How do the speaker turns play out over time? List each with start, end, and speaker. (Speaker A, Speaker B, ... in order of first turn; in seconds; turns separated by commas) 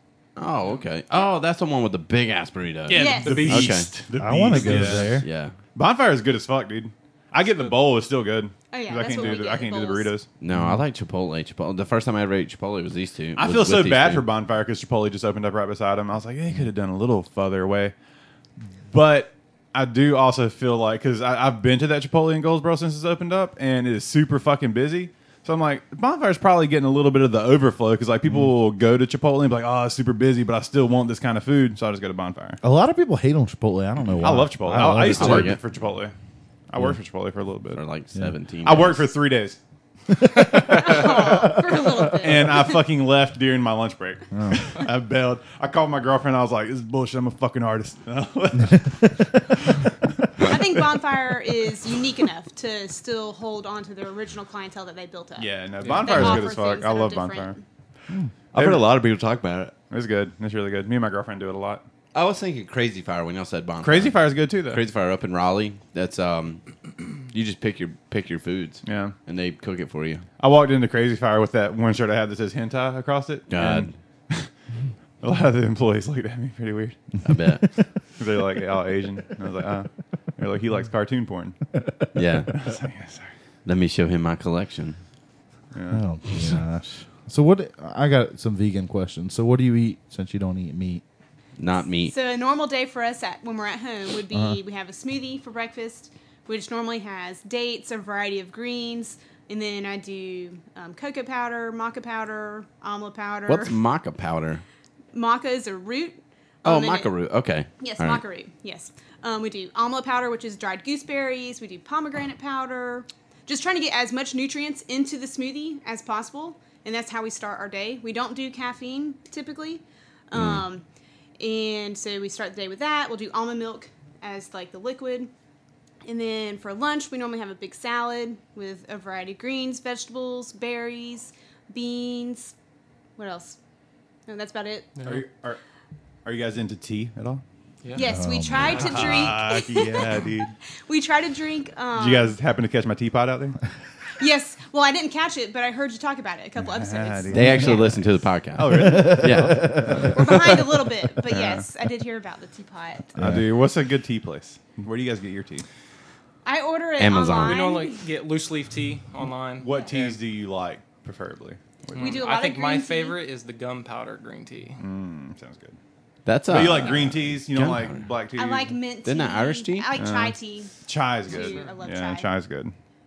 Speaker A: 0.4-3.9, Speaker B: 2.9-10.3, Speaker C: 2.9-3.6, Speaker D: 3.0-3.8, Speaker E: 4.2-5.2, Speaker A: 4.5-5.6, Speaker C: 8.7-10.1, Speaker A: 10.4-14.3, Speaker E: 10.6-10.8, Speaker B: 13.4-17.9, Speaker B: 18.9-32.6, Speaker E: 32.6-35.5, Speaker B: 34.2-36.1, Speaker A: 35.1-35.6, Speaker B: 36.7-37.8, Speaker A: 37.8-39.1, Speaker B: 38.6-39.6, Speaker B: 40.4-41.6, Speaker C: 40.6-42.9, Speaker B: 42.2-50.6, Speaker E: 44.3-44.6, Speaker C: 50.4-57.6, Speaker B: 55.4-57.6, Speaker D: 55.8-56.2, Speaker B: 58.5-58.9, Speaker A: 58.5-59.7, Speaker B: 59.9-61.8, Speaker A: 62.1-70.3, Speaker B: 63.8-64.8, Speaker B: 68.8-69.2, Speaker B: 70.4-74.5, Speaker A: 73.5-74.0, Speaker B: 75.2-77.0, Speaker A: 77.2-77.6, Speaker B: 78.2-81.6, Speaker A: 82.2-82.6, Speaker B: 82.5-83.3, Speaker A: 83.7-85.0, Speaker B: 85.7-86.0, Speaker E: 85.9-91.0, Speaker A: 91.6-92.2, Speaker C: 92.1-103.8, Speaker E: 94.3-94.6, Speaker A: 103.5-104.6, Speaker C: 105.1-107.1, Speaker A: 106.6-108.2, Speaker C: 107.8-120.8, Speaker A: 120.3-120.6, Speaker C: 121.4-125.3, Speaker C: 126.0-132.5, Speaker C: 133.2-133.6, Speaker C: 134.3-135.0, Speaker D: 135.0-135.3, Speaker B: 135.0-135.6, Speaker B: 136.2-137.4, Speaker C: 137.9-140.3, Speaker E: 138.0-138.8, Speaker B: 138.6-140.6, Speaker D: 138.7-139.1, Speaker C: 140.9-142.4, Speaker B: 141.9-143.6, Speaker C: 144.2-147.9, Speaker B: 146.6-150.7, Speaker A: 147.3-150.0, Speaker E: 148.7-150.3, Speaker C: 150.1-153.2, Speaker B: 151.3-151.7, Speaker B: 153.1-155.7, Speaker E: 153.2-153.4, Speaker C: 156.4-158.1, Speaker A: 157.0-157.6, Speaker D: 157.4-160.2, Speaker B: 159.6-162.3, Speaker D: 161.9-164.8, Speaker C: 162.0-163.2, Speaker B: 164.8-165.8, Speaker A: 166.3-168.1, Speaker B: 166.5-168.8, Speaker C: 168.3-172.3, Speaker A: 169.0-169.9, Speaker B: 170.0-172.7, Speaker D: 171.3-171.8